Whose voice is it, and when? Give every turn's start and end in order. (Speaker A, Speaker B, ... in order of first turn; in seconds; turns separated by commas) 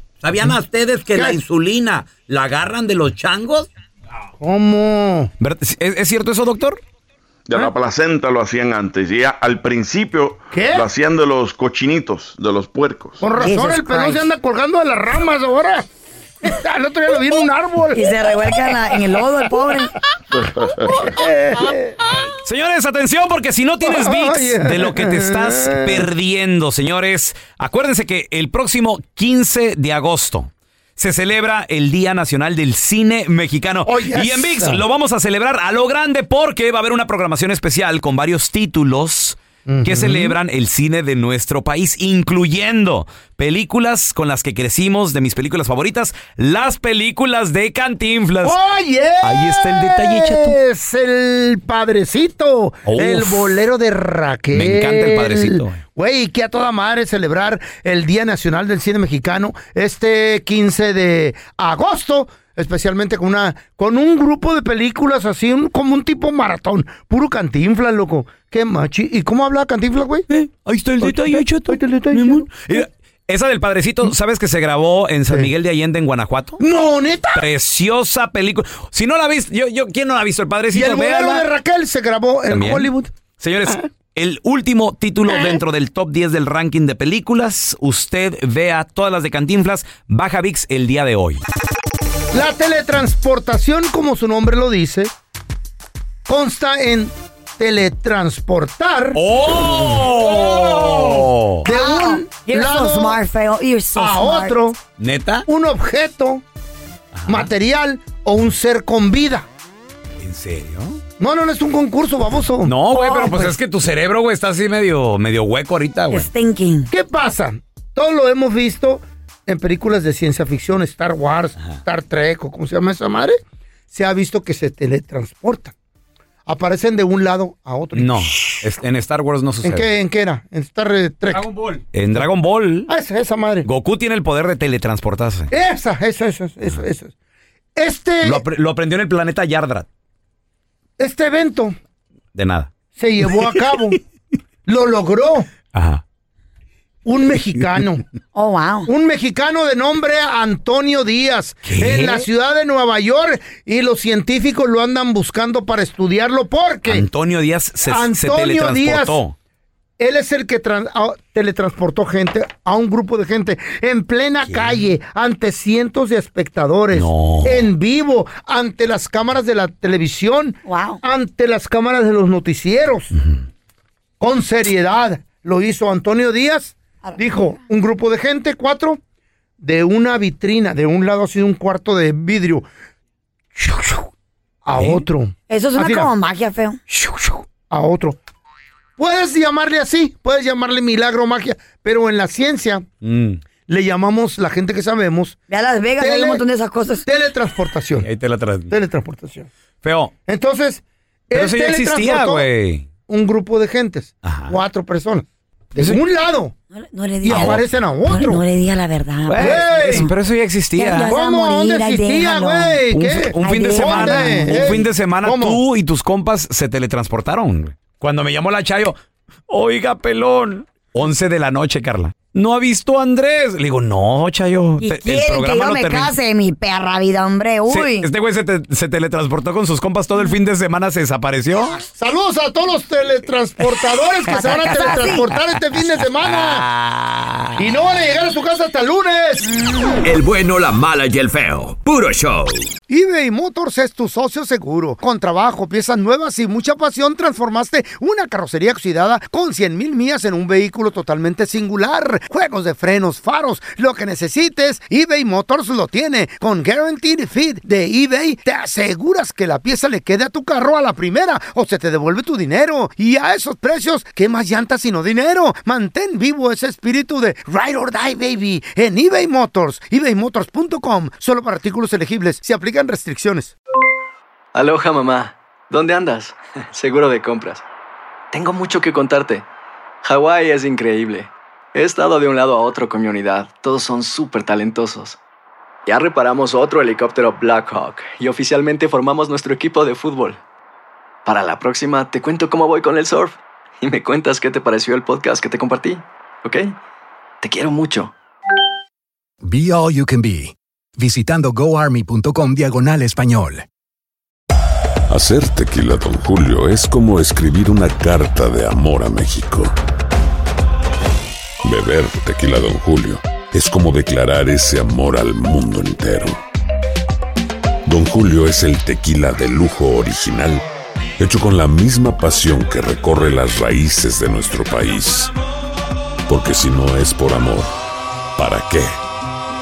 Speaker A: 0.2-3.7, Speaker B: 4.4-5.3, Speaker A: 5.4-6.8, Speaker C: 7.5-13.2, Speaker B: 10.5-10.8, Speaker B: 13.2-15.9, Speaker D: 13.4-14.3, Speaker B: 16.4-18.1, Speaker D: 17.9-19.9, Speaker C: 20.3-21.1, Speaker B: 20.9-22.0, Speaker A: 22.4-48.6, Speaker B: 23.8-26.1, Speaker B: 33.9-34.8, Speaker B: 39.7-40.4, Speaker B: 48.4-70.3, Speaker A: 49.2-50.6, Speaker A: 52.9-53.6, Speaker A: 54.5-55.8, Speaker A: 70.3-76.6, Speaker B: 71.0-72.8, Speaker B: 76.6-77.4, Speaker A: 77.3-81.5, Speaker B: 80.7-83.1, Speaker A: 82.5-91.4, Speaker B: 92.3-95.1, Speaker B: 96.3-99.2, Speaker A: 99.2-101.7, Speaker B: 100.8-103.2, Speaker D: 101.7-104.6, Speaker B: 104.0-104.8, Speaker A: 105.0-105.5, Speaker B: 105.5-106.4, Speaker A: 107.1-107.5, Speaker B: 107.3-109.5, Speaker A: 110.2-111.0, Speaker B: 111.2-112.7, Speaker A: 112.7-116.3, Speaker D: 112.9-113.5, Speaker D: 116.1-116.9, Speaker B: 116.9-123.4, Speaker B: 123.9-125.7, Speaker B: 126.5-128.6, Speaker A: 128.0-129.9, Speaker B: 129.6-131.5, Speaker A: 131.9-132.9, Speaker B: 132.9-133.7, Speaker A: 133.6-135.5, Speaker B: 135.5-137.1, Speaker B: 137.8-138.4, Speaker A: 138.2-139.9, Speaker B: 141.0-141.8, Speaker A: 142.3-142.7, Speaker B: 143.0-144.0, Speaker B: 144.7-145.5, Speaker A: 145.7-146.0, Speaker B: 147.1-148.0, Speaker D: 148.3-148.9, Speaker B: 148.9-157.0, Speaker A: 151.7-152.3, Speaker A: 156.9-159.3, Speaker B: 157.9-159.2, Speaker B: 160.0-173.1, Speaker A: 164.5-164.8, Speaker A: 166.9-167.7, Speaker D: 170.7-171.0, Speaker B: 174.2-179.0, Speaker B: 179.6-182.7, Speaker B: 183.6-184.1, Speaker B: 184.7-186.1, Speaker A: 184.8-185.1, Speaker D: 185.5-186.8, Speaker B: 186.9-188.2, Speaker B: 189.0-192.8, Speaker A: 193.0-193.4, Speaker B: 193.7-195.4, Speaker D: 195.5-197.1, Speaker B: 196.0-196.4, Speaker B: 197.1-198.1, Speaker A: 198.0-198.7, Speaker B: 198.7-199.5, Speaker A: 199.8-200.1, Speaker B: 200.3-202.5, Speaker A: 201.3-202.9, Speaker B: 203.1-206.5, Speaker A: 204.2-204.6, Speaker D: 206.7-210.1, Speaker B: 207.2-208.4, Speaker A: 207.3-207.6, Speaker A: 209.3-211.1, Speaker B: 209.4-210.1, Speaker D: 210.8-214.8, Speaker B: 211.1-215.6, Speaker A: 213.0-219.0, Speaker A: 219.5-226.1, Speaker D: 224.8-228.1, Speaker A: 227.7-231.8, Speaker B: 232.0-236.7, Speaker D: 234.3-235.3, Speaker A: 236.2-237.5, Speaker B: 237.6-239.5, Speaker E: 240.0-242.7, Speaker B: 242.9-273.5, Speaker F: 274.6-277.6, Speaker F: 278.3-279.4, Speaker F: 280.0-285.2, Speaker F: 285.9-290.4, Speaker F: 291.2-296.8, Speaker F: 297.4-298.1, Speaker G: 299.4-303.7, Speaker H: 305.1-309.7, Speaker H: 311.6-316.4, Speaker H: 317.9-320.6, Speaker H: 321.2-325.3, Speaker H: 326.3-327.7, Speaker H: 328.4-329.0